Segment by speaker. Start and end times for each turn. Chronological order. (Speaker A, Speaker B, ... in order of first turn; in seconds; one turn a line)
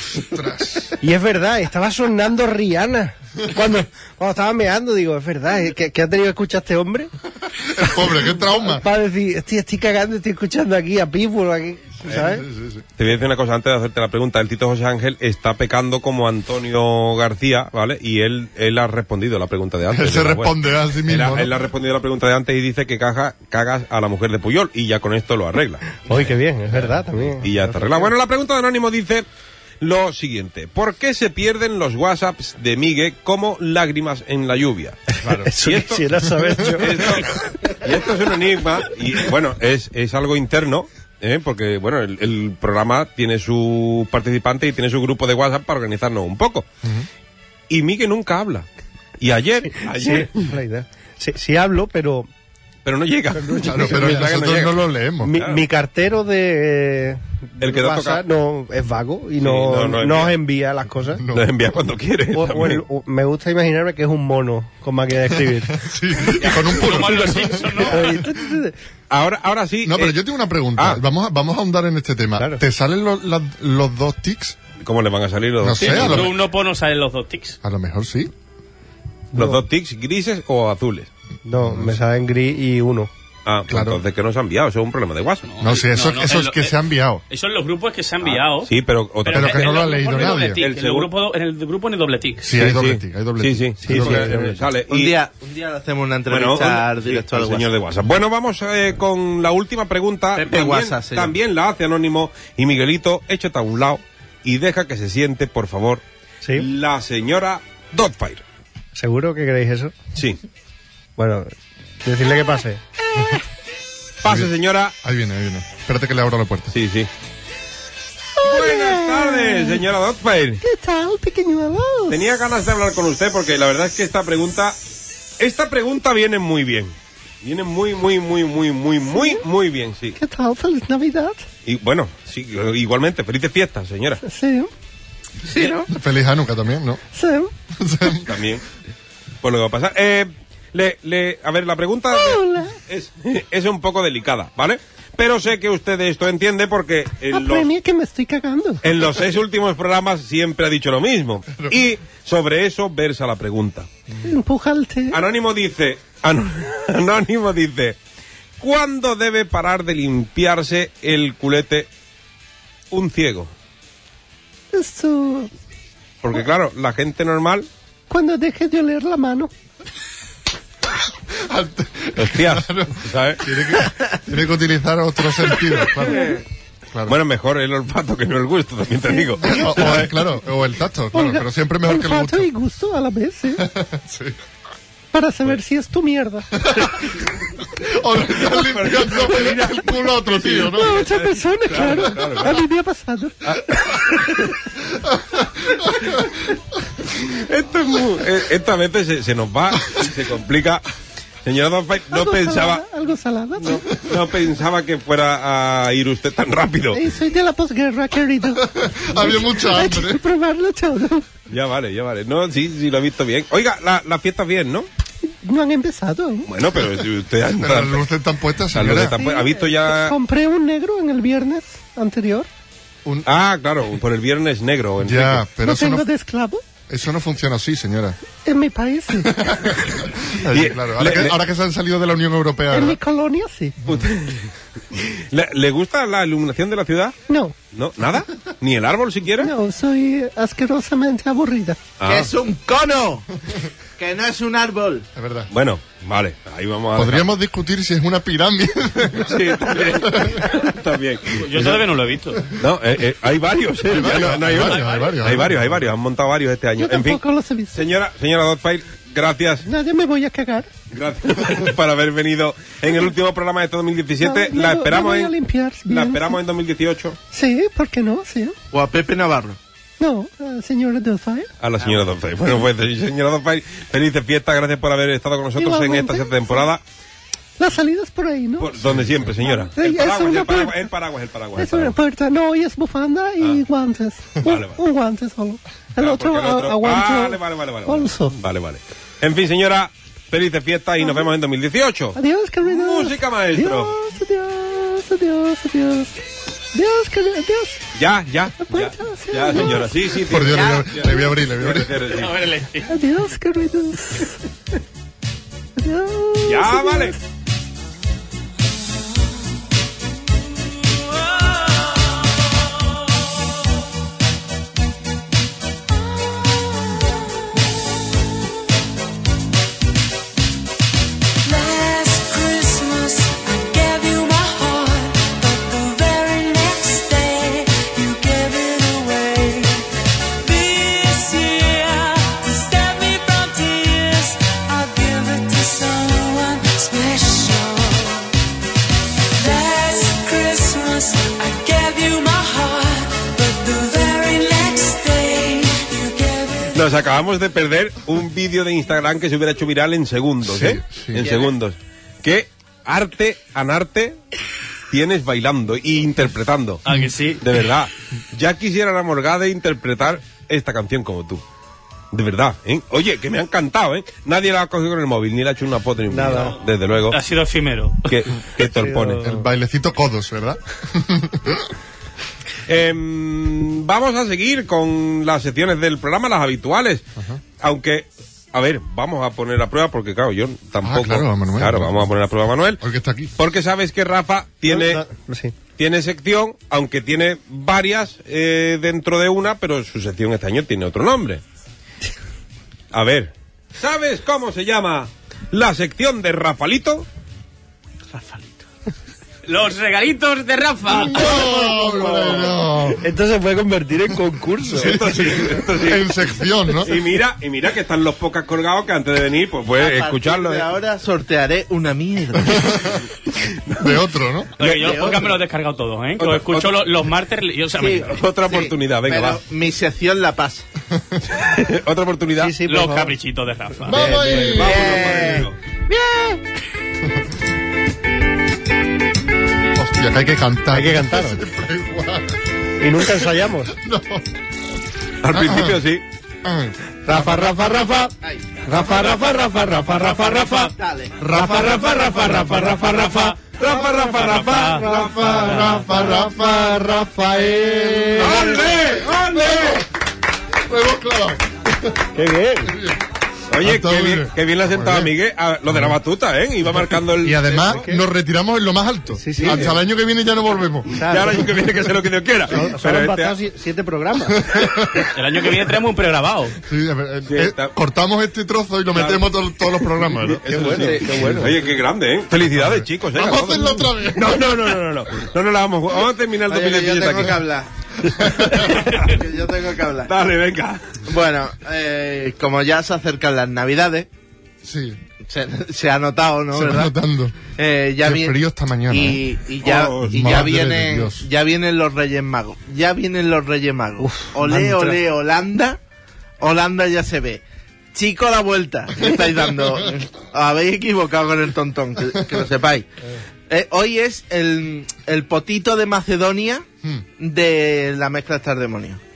Speaker A: 0.1-0.9
Speaker B: 1.0-7.1
Speaker A: 7.6-8.8
Speaker B: 7.9-12.4
Speaker A: 12.1-12.8
Speaker C: 13.0-20.5
Speaker A: 19.9-21.5
Speaker C: 21.1-29.2
Speaker B: 26.1-28.1
Speaker C: 29.8-46.6
Speaker B: 35.2-37.5
Speaker A: 46.8-47.1
Speaker C: 47.7-48.7
Speaker C: 49.2-50.5
Speaker B: 49.8-52.3
Speaker C: 52.8-55.6
Speaker B: 53.3-54.3
Speaker A: 53.6-55.4
Speaker B: 55.2-61.2
Speaker C: 57.6-58.2
Speaker C: 59.4-60.4
Speaker A: 61.1-61.5
Speaker C: 61.3-62.8
Speaker B: 62.3-65.8
Speaker A: 65.3-68.3
Speaker D: 66.4-68.2
Speaker B: 67.9-68.7
Speaker C: 69.1-70.2
Speaker A: 69.8-74.6
Speaker C: 70.8-71.0
Speaker C: 74.8-76.3
Speaker A: 75.6-76.3
Speaker D: 75.8-77.6
Speaker A: 77.6-78.3
Speaker B: 79.3-79.6
Speaker C: 79.3-81.1
Speaker B: 81.4-83.1
Speaker A: 81.6-82.0
Speaker C: 83.5-85.5
Speaker A: 83.7-84.0
Speaker D: 85.4-86.7
Speaker A: 85.6-87.2
Speaker D: 87.3-88.7
Speaker C: 88.2-91.1
Speaker D: 89.2-92.6
Speaker A: 89.3-90.6
Speaker A: 92.4-94.3
Speaker C: 92.5-95.1
Speaker B: 93.8-94.6
Speaker E: 94.9-97.7
Speaker C: 96.3-106.0
Speaker E: 100.3-101.3
Speaker C: 106.5-108.4
Speaker B: 108.9-109.9
Speaker B: 111.2-111.5
Speaker B: 112.0-113.4
Speaker C: 114.2-114.9
Speaker A: 114.2-114.5
Speaker A: 115.0-116.7
Speaker C: 116.7-117.1
Speaker B: 118.4-119.8
Speaker C: 118.4-120.6
Speaker B: 120.6-122.2
Speaker C: 122.1-124.8
Speaker C: 125.4-130.2
Speaker B: 129.1-129.4
Speaker B: 130.2-131.4
Speaker C: 131.7-134.2
Speaker B: 134.2-134.7
Speaker E: 135.4-135.9
Speaker A: 135.9-137.0
Speaker B: 137.1-137.5
Speaker A: 137.8-138.3
Speaker C: 138.2-138.6
Speaker C: 139.4-147.7
Speaker B: 142.1-142.8
Speaker B: 147.3-148.8
Speaker C: 148.8-153.9
Speaker B: 154.2-155.2
Speaker C: 155.1-158.0
Speaker C: 158.6-161.9
Speaker C: 162.9-163.5
Speaker B: 164.7-165.5
Speaker C: 166.2-167.7
Speaker B: 168.1-169.5
Speaker A: 171.3-176.4
Speaker C: 172.2-173.4
Speaker C: 177.1-180.1
Speaker B: 179.1-180.1
Speaker A: 179.4-182.5
Speaker B: 181.1-183.6
Speaker A: 183.6-184.3
Speaker B: 185.1-186.9
Speaker A: 186.6-187.0
Speaker A: 187.7-191.1
Speaker C: 188.3-192.6
Speaker B: 190.5-193.9
Speaker C: 193.4-194.5
Speaker A: 195.1-196.3
Speaker C: 197.0-200.8
Speaker C: 201.4-202.8
Speaker B: 202.1-203.8
Speaker C: 203.6-207.0
Speaker B: 206.9-211.3
Speaker A: 208.6-210.2
Speaker C: 211.5-214.9
Speaker B: 215.3-216.5
Speaker C: 216.4-218.1
Speaker A: 217.6-219.2
Speaker C: 218.7-220.2
Speaker B: 219.1-222.5
Speaker C: 223.2-225.4
Speaker A: 225.0-226.1
Speaker B: 225.6-226.6
Speaker A: 226.9-228.2
Speaker B: 228.4-229.4
Speaker A: 229.2-233.0
Speaker C: 230.4-231.3
Speaker B: 232.7-233.8
Speaker C: 233.8-237.1
Speaker B: 237.3-237.5
Speaker C: 237.7-239.5
Speaker B: 239.4-241.8
Speaker C: 242.0-242.3
Speaker E: 242.0-243.3
Speaker E: 244.0-245.1
Speaker A: 245.2-245.5
Speaker C: 245.5-247.3
Speaker A: 246.9-250.4
Speaker C: 249.1-251.8
Speaker D: 251.4-252.5
Speaker C: 252.5-259.7
Speaker A: 253.8-255.8
Speaker D: 254.6-255.3
Speaker B: 256.8-257.8
Speaker B: 259.6-260.7
Speaker C: 260.9-267.2
Speaker B: 264.2-266.4
Speaker B: 267.3-268.6
Speaker E: 268.7-269.6
Speaker B: 270.0-271.5
Speaker C: 271.6-276.8
Speaker B: 275.6-276.3
Speaker B: 277.6-278.7
Speaker C: 278.6-281.9
Speaker A: 278.9-279.3
Speaker B: 279.4-280.8
Speaker B: 281.6-288.3
Speaker C: 284.4-284.8
Speaker C: 286.0-293.9
Speaker B: 292.1-296.2
Speaker B: 296.7-297.8
Speaker C: 297.9-302.4
Speaker B: 298.6-299.9
Speaker A: 300.2-302.0
Speaker E: 300.6-300.9
Speaker D: 302.1-302.9
Speaker B: 302.9-304.4
Speaker B: 305.8-307.2
Speaker C: 306.4-307.2
Speaker F: 321.4-329.9
Speaker F: 330.4-338.3
Speaker F: 339.4-346.7
Speaker C: 346.7-354.2
Speaker A: 350.4-351.3
Speaker D: 351.2-351.5
Speaker C: 354.9-356.8
Speaker D: 356.9-357.4
Speaker C: 357.4-361.4
Speaker C: 362.1-367.2
Speaker B: 366.1-366.6
Speaker D: 366.3-366.6
Speaker D: 367.1-368.3
Speaker C: 368.1-369.2
Speaker B: 368.6-369.5
Speaker A: 369.2-371.6
Speaker C: 372.7-377.0
Speaker C: 377.6-382.8
Speaker A: 380.8-382.1
Speaker A: 382.8-383.3
Speaker C: 383.4-385.0
Speaker B: 384.7-385.5
Speaker C: 385.8-391.4
Speaker C: 392.9-397.1
Speaker E: 398.1-398.6
Speaker D: 399.4-401.6
Speaker A: 400.9-403.1
Speaker B: 401.1-405.0
Speaker A: 404.7-407.0
Speaker C: 404.8-406.1
Speaker C: 406.8-410.7
Speaker E: 409.8-412.7
Speaker A: 412.6-412.9
Speaker C: 413.4-414.0
Speaker A: 413.8-414.5
Speaker D: 414.6-418.2
Speaker C: 414.6-414.9
Speaker E: 414.7-415.3
Speaker C: 416.2-416.8
Speaker E: 417.8-420.6
Speaker C: 418.1-419.4
Speaker C: 421.3-422.6
Speaker B: 422.4-423.1
Speaker D: 422.6-424.1
Speaker A: 423.9-424.8
Speaker B: 423.9-425.3
Speaker C: 424.3-425.5
Speaker E: 424.5-425.5
Speaker B: 425.9-426.4
Speaker A: 429.7-432.4
Speaker B: 430.7-431.4
Speaker B: 432.8-433.7
Speaker A: 433.0-434.3
Speaker C: 435.2-436.0
Speaker A: 435.3-435.8
Speaker A: 436.4-437.5
Speaker B: 437.1-440.7
Speaker E: 438.2-438.6
Speaker E: 440.7-442.1
Speaker B: 441.2-443.3
Speaker A: 441.4-442.6
Speaker C: 441.7-445.7
Speaker B: 443.9-448.5
Speaker D: 444.1-444.9
Speaker A: 444.9-449.9
Speaker E: 445.0-445.3
Speaker D: 445.5-445.8
Speaker C: 448.2-449.8
Speaker A: 450.6-452.0
Speaker B: 452.1-452.7
Speaker A: 452.7-453.0
Speaker C: 453.5-457.8
Speaker A: 453.6-455.1
Speaker A: 455.7-456.0
Speaker A: 457.2-461.0
Speaker B: 457.5-458.0
Speaker B: 459.2-459.8
Speaker C: 459.4-459.8
Speaker B: 460.9-461.5
Speaker C: 460.9-463.4
Speaker B: 462.5-464.6
Speaker A: 464.4-465.1
Speaker D: 465.1-466.6
Speaker A: 466.7-470.7
Speaker C: 467.3-467.7
Speaker C: 468.9-477.4
Speaker B: 470.5-471.6
Speaker E: 470.7-471.0
Speaker A: 472.5-474.5
Speaker E: 476.5-477.7
Speaker A: 478.2-478.6
Speaker C: 478.5-479.2
Speaker E: 478.5-480.1
Speaker C: 480.1-481.0
Speaker E: 481.0-484.1
Speaker A: 484.6-485.0
Speaker E: 485.3-486.9
Speaker A: 486.5-487.4
Speaker E: 487.5-488.4
Speaker A: 488.0-489.2
Speaker E: 488.9-495.8
Speaker C: 489.6-490.5
Speaker A: 490.1-491.2
Speaker B: 494.0-495.0
Speaker E: 496.4-497.4
Speaker E: 497.9-502.9
Speaker E: 503.5-506.6
Speaker E: 507.2-509.0